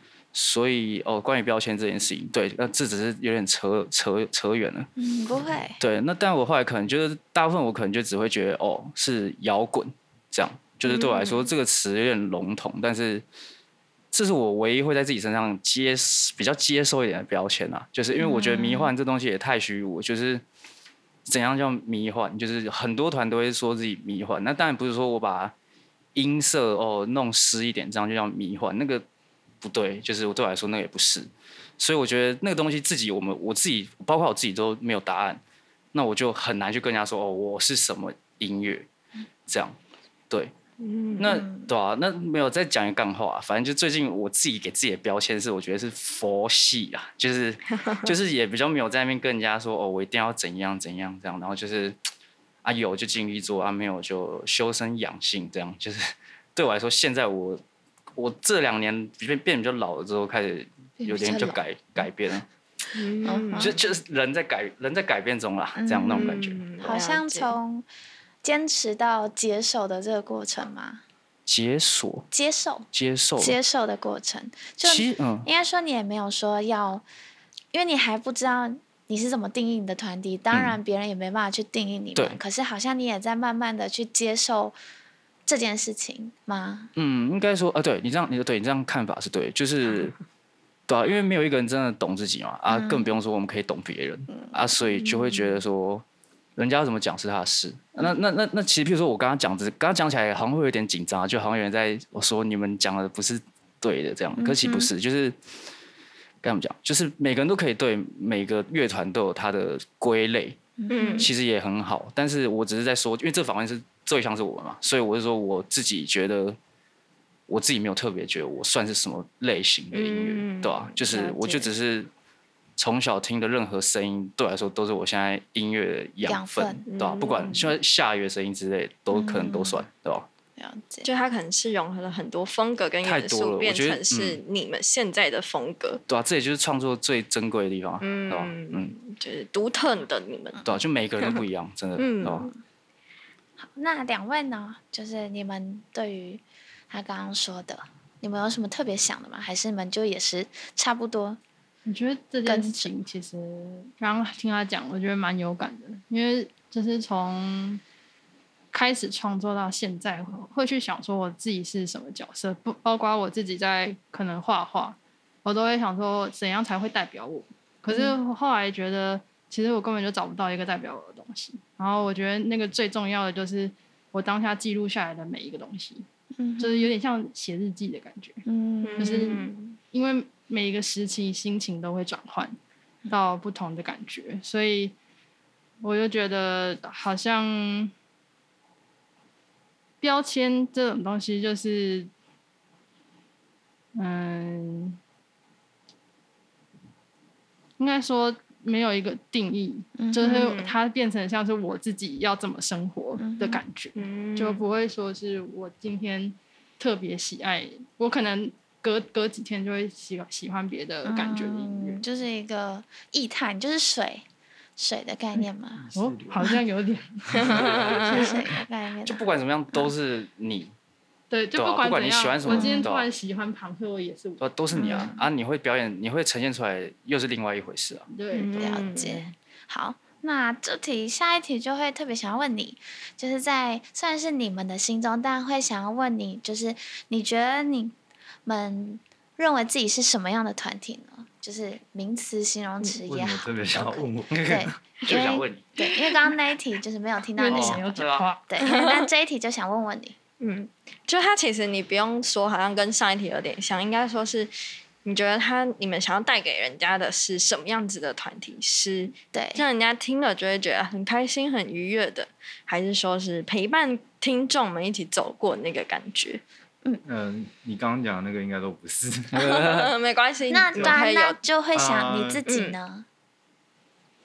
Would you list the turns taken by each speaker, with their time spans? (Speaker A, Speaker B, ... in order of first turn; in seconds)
Speaker A: 0.3-4.9, 5.8-13.2, 14.1-20.4, 21.3-25.5, 26.1-29.0, 29.6-35.4, 35.9-38.9, 39.5-39.8, 41.2-52.0, 52.6-57.6, 58.2-62.5, 63.6-66.6, 71.5-72.3, 72.9-73.6, 74.8-75.5, 80.5-80.8, 87.0-90.2, 90.9-96.0, 96.6-105.4, 106.4-110.6, 111.2-116.6, 117.5-122.1, 122.8-130.3, 133.0-134.4, 136.1-138.9, 140.7-142.5, 217.7-218.1, 219.1-220.7, 221.5-223.1, 224.4-228.1, 244.3-245.7, 247.5-248.3, 269.3-269.9
Speaker B: 5.0-5.8, 10.9-11.4, 18.2-18.9, 41.2-41.7, 61.0-62.0, 63.2-63.8, 65.8-67.9, 68.4-71.0, 72.3-72.9, 73.4-77.0, 77.7-84.8, 85.5-86.9, 92.7-93.1, 94.3-94.7, 104.4-104.9, 110.8-111.3, 126.3-126.8, 129.1-129.8, 130.6-131.1, 143.6-151.4, 152.4-152.9, 167.9-168.2, 176.4-176.9, 178.4-179.4, 200.0-200.5, 203.2-203.6, 211.1-214.2, 214.8-215.9, 218.1-219.9, 222.5-222.9, 224.7-225.2, 228.6-250.2, 259.3-259.6, 270.5-273.1
Speaker C: 40.8-41.3, 63.0-63.8, 66.1-67.5, 95.0-95.6, 110.9-111.3, 119.9-121.7, 126.9-127.8, 131.1-136.0, 138.0-140.7, 142.0-142.5, 178.8-179.8, 200.2-200.8, 204.0-204.6, 217.4-218.2, 228.3-229.3, 248.6-249.1, 250.4-254.5, 255.0-266.4, 269.4-271.4, 272.5-272.8
Speaker D: 151.8-157.8, 158.7-176.1, 176.6-178.4, 179.0-182.6, 183.1-184.9, 185.8-187.9, 190.0-192.1, 194.0-195.0, 197.8-212.0, 215.9-218.4, 221.3-224.5, 228.1-228.8, 247.4-248.6
Speaker E: 215.8-216.5, 243.1-244.7, 267.1-269.6, 270.8-271.0, 271.7-272.4